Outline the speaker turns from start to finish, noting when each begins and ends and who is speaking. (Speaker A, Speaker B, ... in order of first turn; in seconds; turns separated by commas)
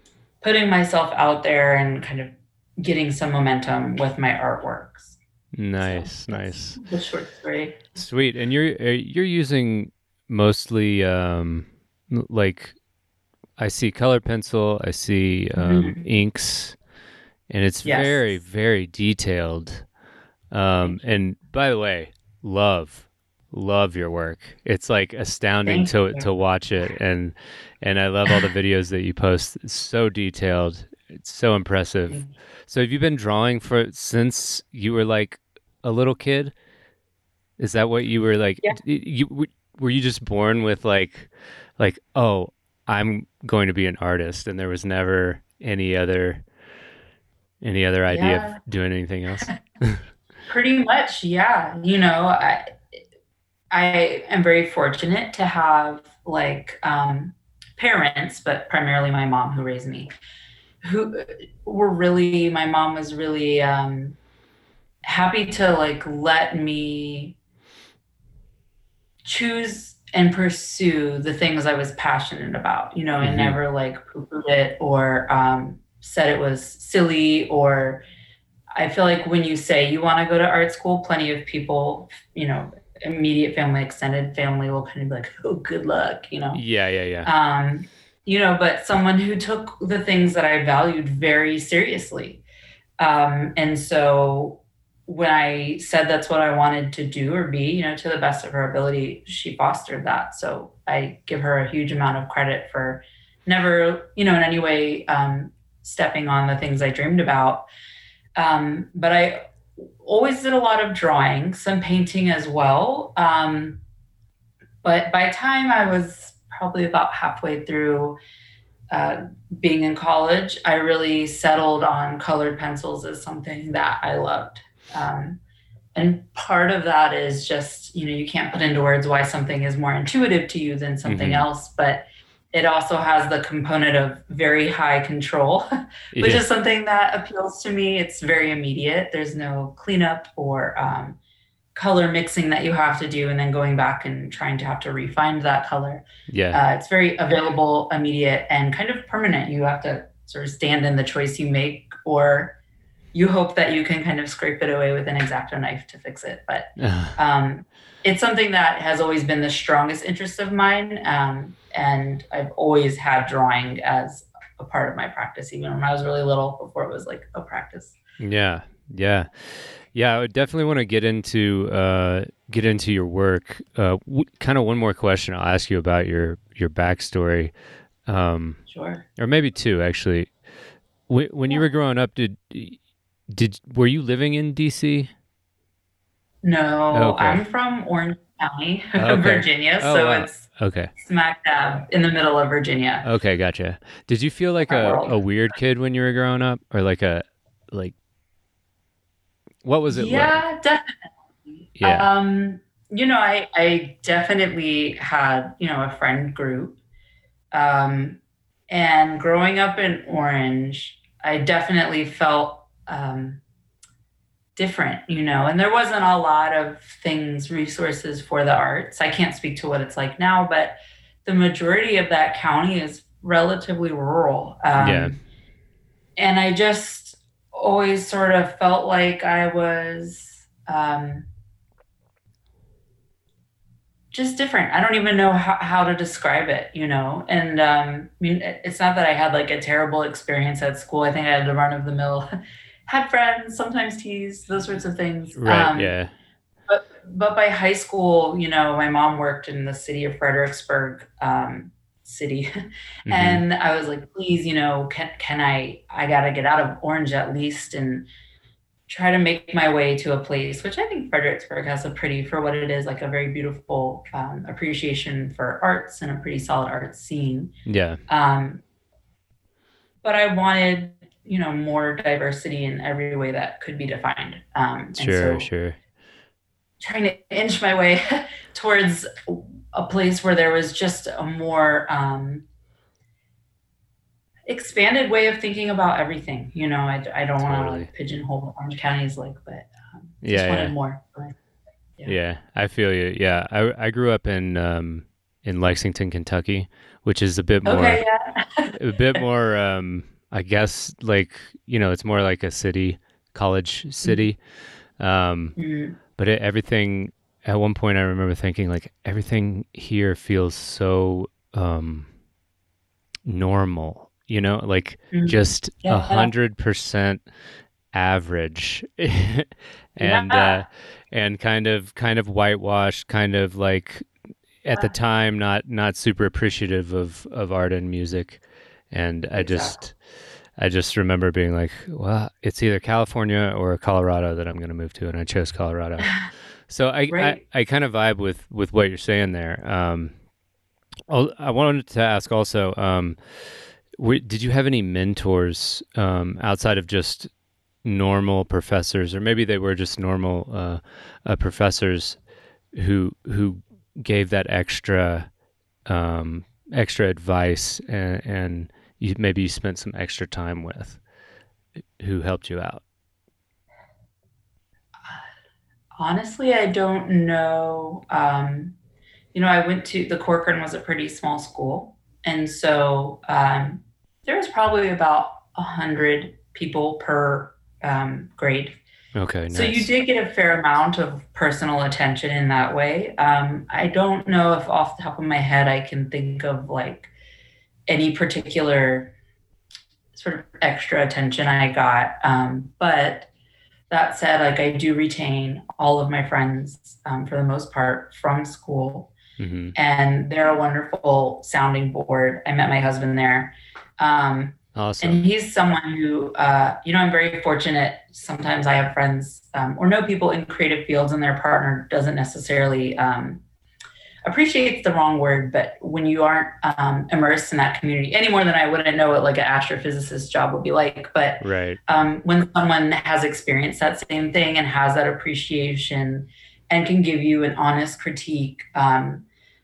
Speaker A: 0.4-5.2, Speaker B: 5.5-6.8, Speaker A: 5.8-8.0, Speaker B: 8.0-12.8, Speaker B: 13.6-16.8, Speaker A: 15.6-16.1, Speaker B: 17.5-19.9, Speaker A: 17.8-18.4, Speaker B: 20.5-36.5, Speaker A: 25.6-26.3, Speaker B: 37.6-46.5, Speaker B: 47.6-50.0, Speaker A: 48.1-48.6, Speaker A: 50.5-52.8, Speaker A: 53.7-60.1, Speaker A: 60.8-64.2, Speaker A: 65.0-67.3, Speaker A: 69.2-78.0, Speaker B: 73.2-73.6, Speaker A: 78.8-86.6, Speaker B: 86.5-87.3, Speaker A: 87.2-92.4, Speaker A: 93.0-107.7, Speaker A: 108.4-113.8, Speaker A: 114.8-118.2, Speaker A: 118.9-125.4, Speaker A: 126.0-141.2, Speaker B: 131.1-131.5, Speaker B: 136.2-136.4, Speaker A: 141.8-152.6, Speaker B: 146.3-146.6, Speaker A: 153.1-168.0, Speaker B: 156.8-157.2, Speaker B: 168.2-177.5, Speaker B: 178.1-178.6, Speaker A: 178.7-179.0, Speaker B: 179.2-180.3, Speaker B: 181.1-185.1, Speaker A: 186.4-190.4, Speaker B: 186.9-187.4, Speaker B: 189.0-190.9, Speaker A: 191.0-193.1, Speaker B: 193.0-197.9, Speaker A: 194.6-195.2, Speaker B: 199.6-200.4, Speaker A: 199.9-200.9, Speaker A: 201.5-206.8, Speaker B: 201.8-202.1, Speaker A: 207.5-208.2, Speaker A: 208.7-213.4, Speaker A: 214.6-225.2, Speaker B: 224.7-225.2, Speaker A: 226.2-231.3, Speaker A: 234.1-242.3, Speaker A: 242.9-245.9, Speaker B: 245.3-246.1, Speaker A: 246.7-252.5, Speaker B: 253.1-253.4, Speaker A: 253.1-258.1, Speaker A: 258.9-267.5, Speaker B: 267.7-268.0, Speaker A: 268.1-268.6, Speaker A: 270.0-275.5, Speaker B: 274.9-275.8, Speaker A: 276.8-282.4, Speaker A: 284.5-291.4, Speaker B: 287.4-287.9, Speaker B: 290.2-290.7, Speaker B: 292.1-298.0, Speaker A: 297.6-298.7, Speaker B: 298.7-304.4, Speaker B: 305.0-305.6, Speaker A: 305.6-306.0, Speaker B: 306.1-312.1, Speaker B: 313.2-317.2, Speaker A: 315.1-316.3, Speaker B: 317.9-324.1, Speaker A: 320.0-320.6, Speaker B: 324.6-330.0, Speaker A: 329.4-329.8, Speaker B: 330.6-336.2, Speaker B: 336.7-340.1, Speaker A: 337.1-337.4, Speaker B: 341.1-347.3, Speaker B: 347.8-352.2, Speaker B: 352.7-355.3, Speaker B: 355.9-361.0, Speaker B: 362.0-362.8, Speaker A: 366.0-368.8, Speaker A: 369.3-378.8, Speaker B: 379.1-379.9, Speaker A: 379.5-387.1, Speaker A: 387.9-389.1, Speaker A: 390.1-393.3, Speaker A: 393.9-399.1, Speaker B: 399.4-399.8, Speaker A: 399.8-413.4, Speaker B: 404.8-405.2, Speaker A: 414.2-429.2, Speaker B: 421.4-421.8